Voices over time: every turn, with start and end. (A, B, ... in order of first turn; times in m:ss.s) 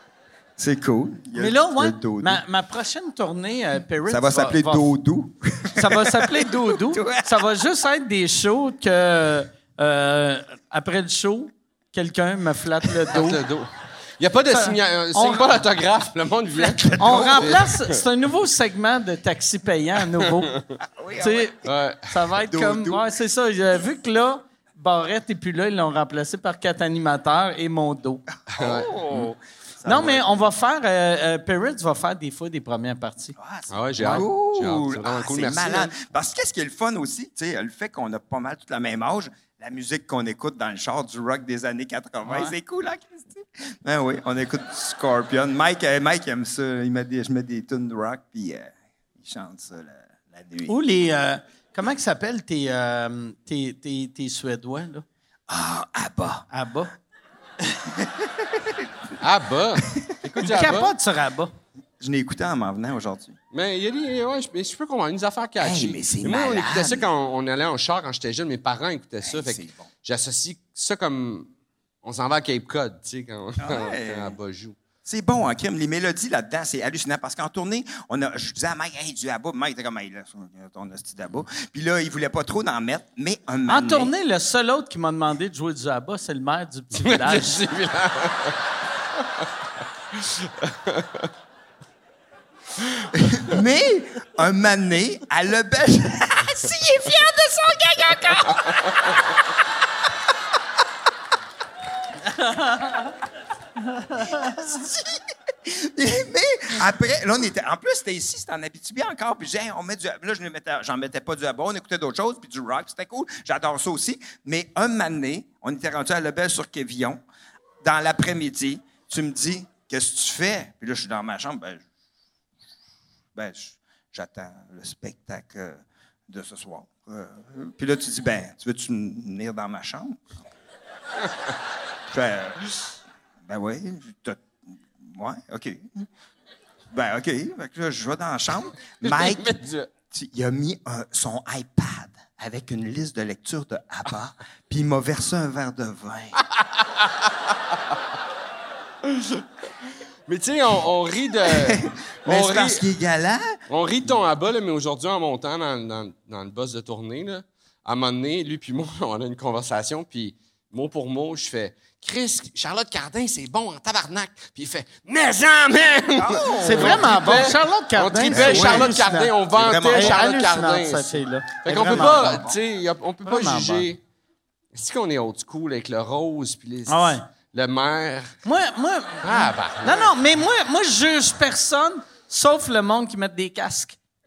0:00.6-0:02.4 A
0:01.3-0:04.8 B
0:04.0-0:07.4 A
0:05.8-0:13.4 B
0:13.1-0:18.0 C
0:14.5-0:15.6 B
0:16.6-0:17.6 A
0:17.0-0:20.5 B
0:20.8-0:21.5 A
0:21.2-0:21.6 B
0:21.6-0:22.1 C
0:22.1-0:28.2 B
0:22.4-0:23.0 A
0:28.5-0:30.5 A
0:28.5-0:29.3 C
0:29.8-0:33.4 B
0:33.4-0:50.7 A
0:33.7-0:35.9 C
0:42.2-0:42.6 B
0:50.7-0:55.0 B
0:55.5-0:56.4 A
0:56.5-0:56.9 B
0:58.0-0:58.8 A
0:59.2-1:00.9 C
1:00.4-1:01.5 B
1:02.0-1:03.4 A
1:03.5-1:11.5 C
1:05.6-1:07.1 A
1:09.2-1:09.9 A
1:12.0-1:14.8 C
1:13.6-1:14.4 A
1:15.0-1:24.1 A
1:23.7-1:27.6 B
1:26.9-1:28.6 C
1:30.2-1:31.3 C
1:32.8-1:33.1 C
1:33.1-1:39.2 A
1:42.4-1:42.8 B
1:44.2-1:57.2 A
1:57.8-2:01.8 A
2:03.3-2:10.4 A
2:12.1-2:12.6 A
2:13.4-2:16.1 A
2:16.9-2:26.4 A
2:19.0-2:19.9 C
2:26.4-2:27.3 C
2:29.0-2:29.4 C
2:30.3-2:32.8 C
2:31.4-2:33.5 A
2:33.7-2:54.0 C
2:46.2-2:47.4 A
2:46.6-2:49.3 B
2:48.3-2:50.2 A
2:49.9-2:52.5 B
2:51.7-2:52.6 A
2:53.2-2:53.9 B
2:54.7-2:58.4 C
2:56.9-2:57.2 B
2:58.4-3:04.0 B
2:59.2-3:00.1 C